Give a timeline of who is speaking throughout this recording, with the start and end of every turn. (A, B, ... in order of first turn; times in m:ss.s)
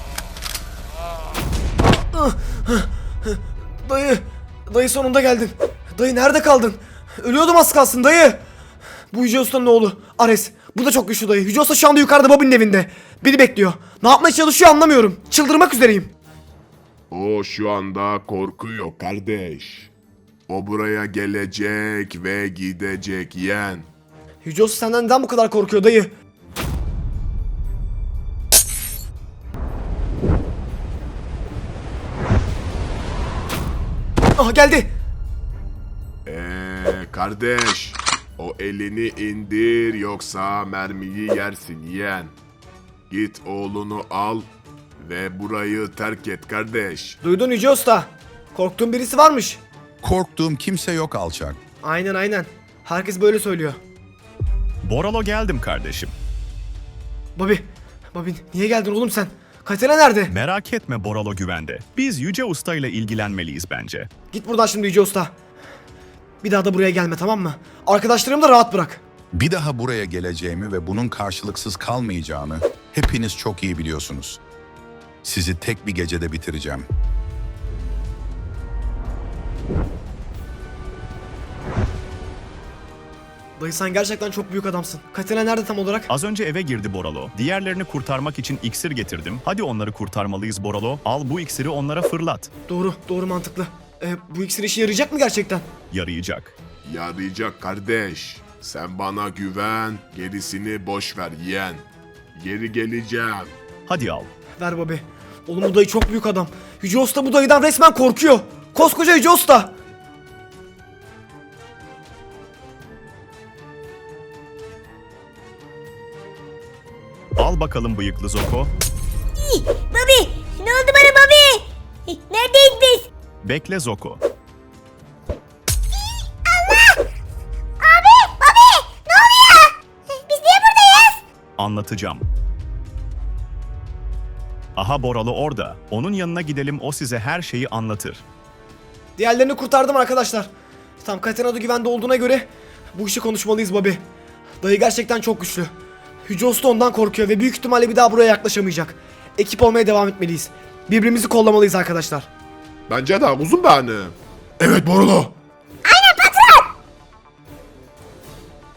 0:01.9-0:08.4 A
0:09.1-0:16.1 A
0:17.1-0:19.9 B
0:20.5-0:23.9 B
0:24.4-0:26.1 A
0:34.4-0:34.9 A
0:36.2-0:42.3 B
0:43.1-0:47.2 B
0:47.2-0:49.6 A
0:50.0-0:51.6 C
0:51.8-0:53.8 A
0:54.8-0:56.1 D
0:57.4-1:00.3 A
1:00.3-1:04.1 D
1:04.3-1:05.3 A
1:06.4-1:09.0 A
1:09.3-1:14.4 C
1:15.2-1:16.8 C
1:23.6-1:26.1 A
1:26.1-1:32.5 D
1:32.7-1:35.6 A
1:35.9-1:36.5 D
1:36.8-1:43.5 B
1:43.9-1:44.3 D
1:44.6-1:49.7 A
1:57.4-1:58.7 D
1:59.4-2:03.1 E
2:03.4-2:04.2 D
2:06.5-2:07.0 E
2:07.8-2:11.2 E
2:11.6-2:12.3 D
2:14.8-2:18.2 D
2:19.2-2:20.5 A
2:21.0-2:24.0 A
2:24.6-2:25.7 A
2:26.3-2:32.3 A
2:32.9-2:35.3 B
2:35.8-2:36.7 E